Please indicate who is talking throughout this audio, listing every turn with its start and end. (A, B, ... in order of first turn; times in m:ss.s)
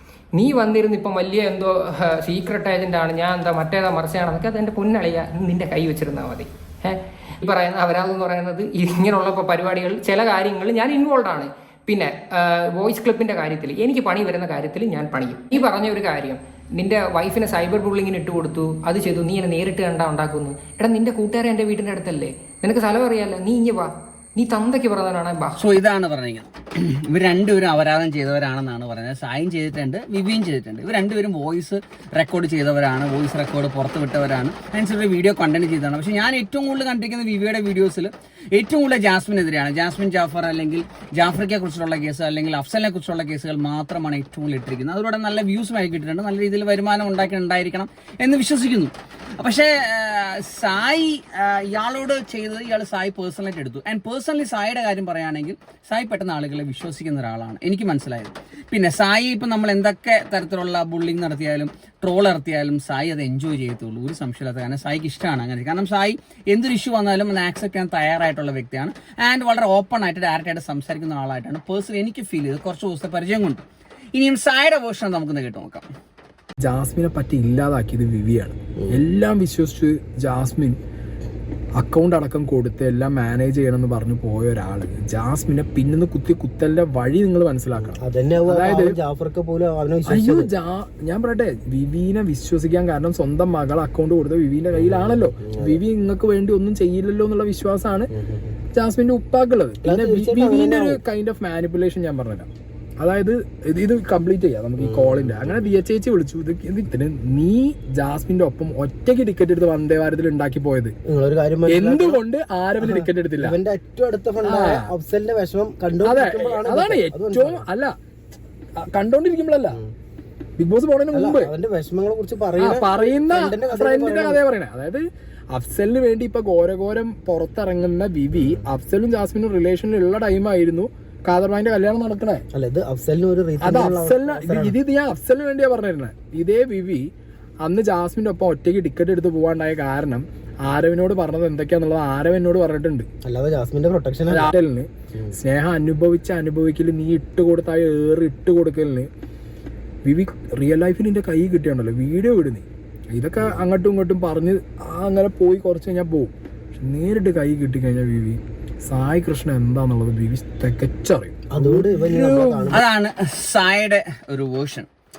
0:00.3-0:25.6 A
0:25.6-1:13.6 B
1:14.1-1:15.9 B
1:16.6-1:20.8 C
1:21.8-1:28.9 C
1:27.8-1:30.5 D
1:30.1-1:38.1 C
1:34.7-1:35.8 D
1:38.1-1:38.5 D
1:38.7-1:42.5 C
1:39.8-1:41.0 D
1:43.0-1:50.9 C
1:44.8-1:45.5 D
1:51.0-1:52.2 D
1:51.7-1:53.6 C
1:52.8-1:57.6 D
1:54.4-1:54.9 C
1:56.0-1:58.0 C
1:58.8-1:59.8 C
2:00.6-2:01.5 C
2:01.1-2:04.4 D
2:02.6-2:12.4 C
2:08.3-2:08.6 D
2:12.5-2:14.8 D
2:13.6-2:17.1 C
2:17.6-2:23.1 C
2:23.2-2:24.5 D
2:24.3-2:29.1 C
2:30.0-2:42.7 C
2:41.5-2:42.8 D
2:42.7-2:44.9 B